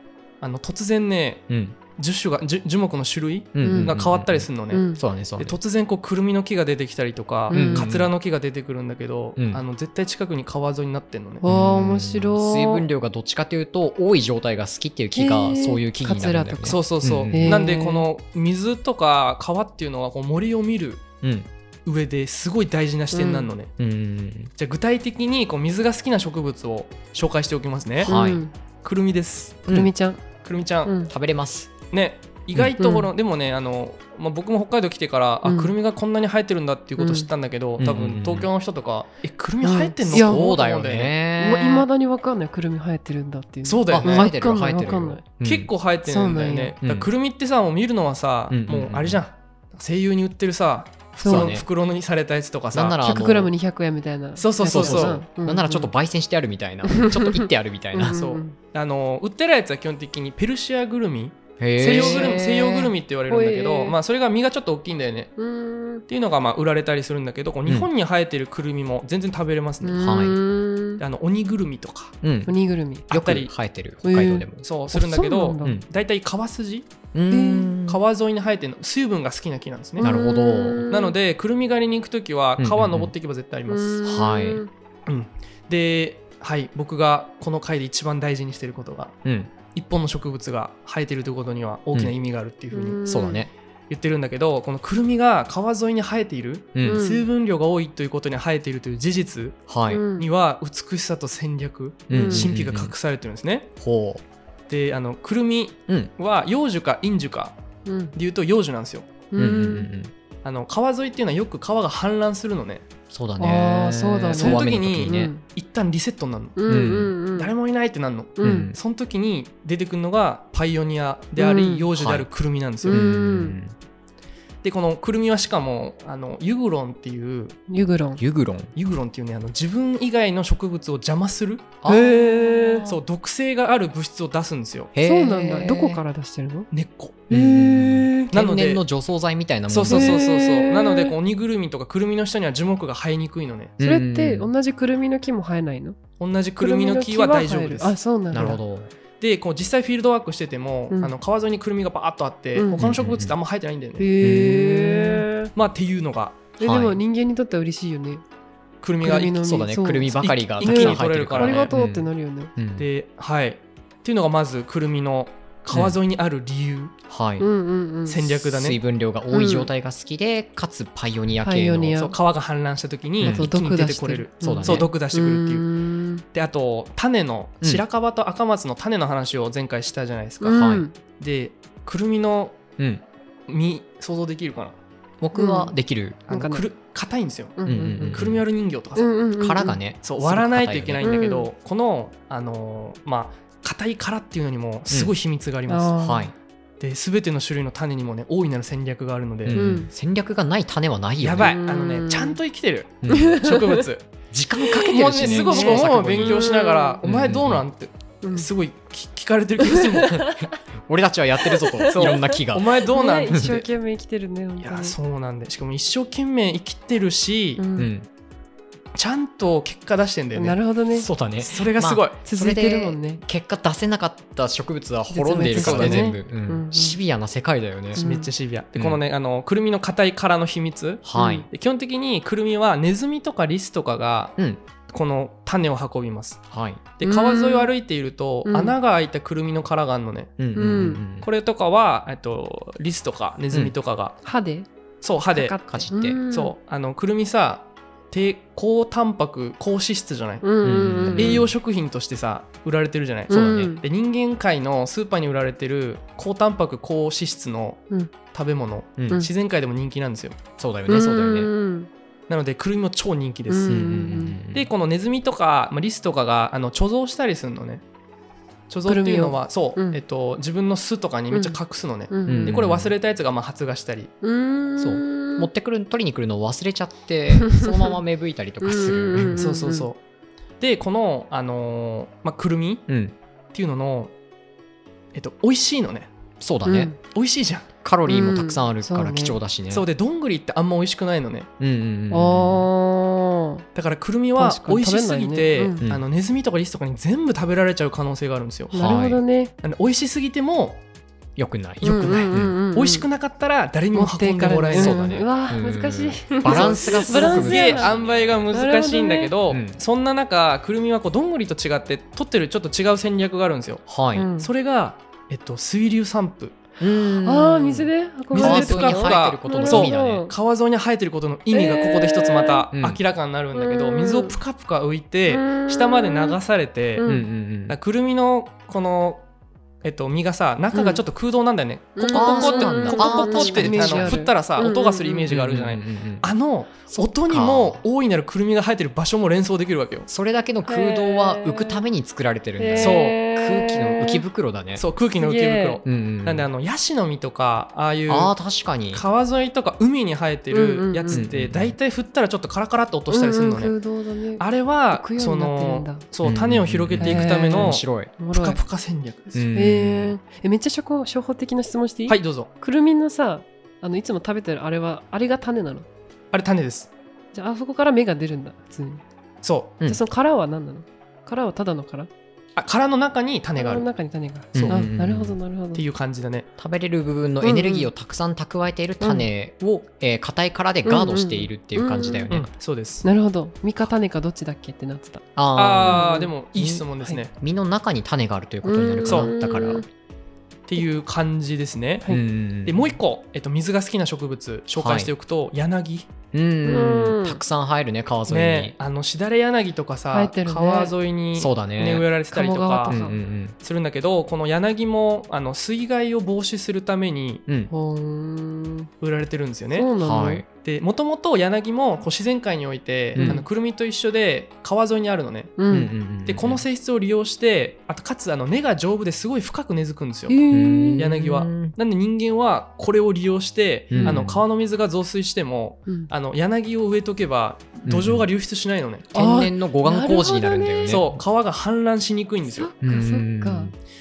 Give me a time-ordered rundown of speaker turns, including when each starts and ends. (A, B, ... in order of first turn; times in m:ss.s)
0:00.4-0:01.4 A
0:01.5-0:01.8 B
0:02.0-0:04.9 A
0:03.6-0:05.6 B
0:03.6-0:03.9 C
0:04.7-0:05.0 C
0:05.4-0:11.4 A
0:07.5-0:07.9 C
0:07.5-0:08.1 B
0:09.4-0:09.6 B
0:11.4-0:12.9 C
0:11.4-0:17.6 B
0:15.1-0:18.1 C
0:16.6-0:21.1 A
0:21.2-0:21.5 B
0:21.8-0:23.7 A
0:23.1-0:23.5 C
0:23.8-0:24.5 B
0:24.6-0:28.1 A
0:28.0-0:28.4 B
0:28.1-0:28.5 C
0:28.8-0:29.7 A
0:29.7-0:30.2 C
0:30.4-0:30.9 A
0:30.8-0:31.1 C
0:31.1-0:31.7 B
0:31.9-0:41.1 A
0:32.8-0:33.1 C
0:35.4-0:35.8 C
0:37.0-0:37.3 C
0:37.8-0:38.5 B
0:39.6-0:40.5 C
0:40.1-0:41.9 B
0:41.4-0:45.2 C
0:43.7-0:44.3 A
0:43.9-0:45.7 B
0:45.4-0:53.0 A
0:46.0-0:46.8 C
0:46.8-0:47.1 B
0:48.5-0:49.2 B
0:51.2-0:51.6 B
0:51.2-0:51.6 C
0:52.7-0:53.5 B
0:53.0-0:55.9 C
0:54.4-0:55.2 A
0:54.7-0:58.2 B
0:56.8-0:58.6 C
0:58.1-1:05.3 A
1:01.6-1:02.9 B
1:01.8-1:02.4 C
1:03.3-1:04.0 C
1:05.4-1:06.0 C
1:06.1-1:10.0 A
1:09.8-1:11.0 C
1:10.0-1:10.4 B
1:11.0-1:12.2 A
1:12.2-1:12.6 B
1:12.5-1:13.1 C
1:13.1-1:13.5 A
1:13.1-1:14.6 B
1:14.0-1:15.8 C
1:14.6-1:16.9 A
1:17.1-1:18.0 B
1:17.3-1:17.7 C
1:17.8-1:20.1 A
1:20.0-1:21.1 C
1:20.0-1:20.9 B
1:20.9-1:24.0 A
1:22.6-1:23.1 B
1:23.7-1:24.7 C
1:24.0-1:24.6 B
1:25.1-1:29.2 A
1:29.2-1:29.5 B
1:29.7-1:33.0 A
1:32.7-1:33.5 C
1:33.1-1:33.5 B
1:33.9-1:43.7 A
1:36.8-1:37.0 B
1:36.8-1:37.2 C
1:39.7-1:40.0 B
1:39.9-1:40.3 C
1:42.1-1:42.9 B
1:42.1-1:42.5 C
1:43.8-1:44.2 B
1:44.7-1:47.6 A
1:47.8-1:48.2 C
1:48.2-1:49.2 A
1:49.3-1:49.9 C
1:49.4-1:50.1 B
1:50.4-1:52.8 A
1:53.1-1:55.3 B
1:53.4-1:55.4 C
1:54.4-1:56.6 A
1:56.6-1:57.5 C
1:56.7-1:57.1 B
1:57.3-2:03.1 A
1:58.4-1:58.7 C
1:58.4-1:58.8 B
2:01.4-2:01.9 C
2:02.0-2:02.3 B
2:02.8-2:03.6 C
2:02.9-2:03.7 B
2:04.6-2:07.6 A
2:07.7-2:08.2 C
2:08.2-2:08.7 B
2:08.8-2:11.8 A
2:11.8-2:13.0 B
2:11.8-2:12.9 C
2:12.8-2:14.9 A
2:15.0-2:16.0 B
2:15.0-2:16.7 C
2:16.7-2:17.2 A
2:17.3-2:18.4 C
2:17.3-2:20.2 B
2:18.3-2:18.8 A
2:19.7-2:23.8 A
2:19.9-2:21.2 C
2:23.8-2:24.5 B
2:23.8-2:26.0 C
2:26.2-2:28.0 A
2:26.6-2:28.6 C
2:28.3-2:28.9 B
2:29.2-2:34.1 A
2:32.6-2:32.8 C
2:32.8-2:33.4 B
2:34.0-2:35.5 C
2:34.2-2:34.8 B
2:34.9-2:36.5 A
2:36.6-2:38.2 C
2:36.6-2:37.0 B
2:38.8-2:39.4 A
2:39.0-2:42.5 C
2:39.4-2:42.9 B
2:40.2-2:41.7 A
2:42.8-2:47.0 A
2:45.7-2:46.0 B
2:47.1-2:47.5 B
2:47.4-2:48.2 C
2:48.1-2:48.8 A
2:48.4-2:52.0 B
2:49.3-2:49.7 C
2:51.4-2:52.2 C
2:52.0-2:55.7 A
2:53.2-2:53.5 B
2:53.2-2:56.2 C
2:54.4-2:54.9 B
2:56.3-3:02.6 A
3:00.4-3:01.0 C
3:00.5-3:00.8 B
3:02.8-3:03.0 B
3:03.5-3:04.8 A
3:05.2-3:06.2 B
3:05.4-3:05.7 C
3:06.3-3:09.1 A
3:06.3-3:06.7 C
3:07.6-3:08.3 C
3:07.7-3:08.4 B
3:09.0-3:09.8 C
3:09.4-3:11.0 B
3:10.0-3:16.0 A
3:11.0-3:11.5 C
3:15.7-3:16.3 C
3:16.0-3:16.3 B
3:16.8-3:19.6 A
3:19.4-3:21.6 B
3:19.5-3:19.9 C
3:21.2-3:24.0 A
3:21.4-3:22.4 C
3:23.0-3:23.4 B
3:23.1-3:23.8 C
3:24.3-3:26.4 B
3:24.8-3:30.2 A
3:25.0-3:27.0 C
3:27.0-3:27.6 B
3:28.2-3:28.5 C
3:29.6-3:30.6 C
3:30.2-3:33.6 B
3:31.4-3:35.0 C
3:31.9-3:33.7 A
3:34.6-3:37.6 A
3:37.6-3:37.9 C
3:37.8-3:38.1 B
3:39.0-3:40.6 A
3:40.3-3:41.1 C
3:41.0-3:48.0 B
3:41.4-3:42.2 A
3:42.2-3:43.2 C
3:45.1-3:47.0 C
3:45.5-3:46.1 A
3:48.0-3:48.3 C
3:48.0-3:54.4 A
3:51.1-3:51.5 B
3:51.2-3:51.5 C
3:54.9-3:56.4 A
3:56.5-3:56.8 B
3:57.0-4:00.3 A
3:57.0-3:57.7 C
3:58.5-3:58.8 C
4:00.4-4:01.3 B
4:00.6-4:01.0 C
4:01.2-4:04.2 A
4:04.2-4:04.7 C
4:05.0-4:05.6 A
4:05.3-4:06.5 C
4:05.7-4:06.2 B
4:06.3-4:10.5 A
4:10.4-4:11.5 C
4:10.6-4:11.6 B
4:11.2-4:20.4 A
4:13.3-4:13.8 B
4:13.3-4:13.8 C
4:19.0-4:19.3 B
4:20.6-4:21.5 B
4:20.9-4:21.9 C
4:22.3-4:23.8 A
4:23.5-4:24.4 C
4:23.7-4:24.7 B
4:24.5-4:27.8 A
4:28.7-4:34.1 A
4:28.9-4:30.0 C
4:31.3-4:31.6 C
4:32.1-4:32.6 C
4:32.3-4:32.9 B
4:34.2-4:35.5 C
4:34.8-4:39.4 B
4:37.4-4:38.0 C
4:38.6-4:39.9 C
4:39.4-4:40.0 A
4:40.6-4:42.9 A
4:42.9-4:43.2 B
4:43.5-4:44.1 A
4:45.1-4:46.1 A
4:46.4-4:46.9 B
4:46.6-4:47.0 C
4:47.1-4:47.7 A
4:47.8-4:49.9 B
4:48.1-4:49.4 C
4:49.7-4:51.5 A
4:51.6-4:52.7 B
4:52.1-4:53.6 C
4:53.8-4:58.8 A
4:54.4-4:55.8 C
4:58.7-4:59.5 C
4:58.8-4:59.2 B
4:59.6-5:00.8 A
5:01.4-5:02.6 B
5:01.8-5:03.1 C
5:01.8-5:05.2 A
5:03.9-5:07.9 C
5:04.7-5:08.5 B
5:06.4-5:13.8 A
5:08.5-5:09.3 C
5:09.5-5:09.8 B
5:13.9-5:14.3 B
5:14.1-5:14.5 C
5:14.4-5:16.6 A
5:16.8-5:20.3 B
5:17.2-5:20.3 C
5:18.3-5:27.1 A
5:21.5-5:22.7 C
5:22.7-5:23.0 B
5:23.5-5:24.4 C
5:25.3-5:26.4 C
5:27.0-5:27.3 C
5:27.0-5:27.8 B
5:27.7-5:29.2 A
5:29.8-5:40.1 A
5:30.7-5:31.0 C
5:32.0-5:35.3 C
5:32.2-5:34.2 B
5:35.3-5:36.3 B
5:36.9-5:37.8 B
5:40.1-5:44.8 B
5:40.7-5:41.8 C
5:42.6-5:44.2 C
5:42.8-5:43.2 A
5:44.8-5:48.3 A
5:45.2-5:45.8 C
5:45.8-5:46.5 B
5:48.1-5:49.0 B
5:48.9-5:53.7 A
5:50.5-5:51.3 C
5:51.1-5:51.8 B
5:53.1-5:56.0 C
5:54.4-5:59.5 A
5:56.2-5:58.1 B
5:57.0-5:58.6 C
5:59.4-6:00.2 B
5:59.5-6:05.9 C
6:02.1-6:02.5 A
6:06.3-6:06.9 A
6:07.3-6:09.0 C
6:09.4-6:09.8 A
6:09.8-6:12.1 C
6:12.6-6:13.9 A
6:13.6-6:15.8 C
6:14.5-6:14.8 A
6:14.5-6:15.4 B
6:15.8-6:16.5 A
6:16.6-6:22.5 B
6:17.4-6:17.9 C
6:19.0-6:19.3 C
6:20.8-6:22.3 C
6:22.3-6:23.1 A
6:23.0-6:25.2 C
6:25.4-6:29.8 B
6:25.6-6:27.3 A
6:25.8-6:26.3 C
6:28.6-6:29.9 C
6:29.0-6:29.3 A
6:30.7-6:32.1 A
6:32.1-6:33.0 B
6:32.6-6:36.1 A
6:34.8-6:35.1 B
6:36.3-6:38.8 B
6:36.6-6:37.4 C
6:38.3-6:43.0 A
6:40.1-6:40.9 C
6:41.4-6:42.1 B
6:42.3-6:43.2 C
6:42.9-6:43.6 B
6:43.6-6:47.4 A
6:47.7-6:48.9 C
6:49.0-6:49.9 A
6:49.7-6:50.4 C
6:50.0-6:50.5 B
6:50.6-6:55.6 A
6:53.1-6:53.4 B
6:53.2-6:53.5 C
6:55.6-6:55.9 C
6:55.7-6:56.6 B
6:56.3-7:00.4 A
7:00.3-7:01.1 C
7:00.5-7:01.8 B
7:01.0-7:09.4 A
7:03.9-7:04.4 B
7:04.0-7:04.3 C
7:07.9-7:08.3 B
7:09.1-7:11.0 C
7:09.1-7:11.2 B
7:10.9-7:12.7 A
7:12.4-7:13.7 C
7:12.8-7:13.8 B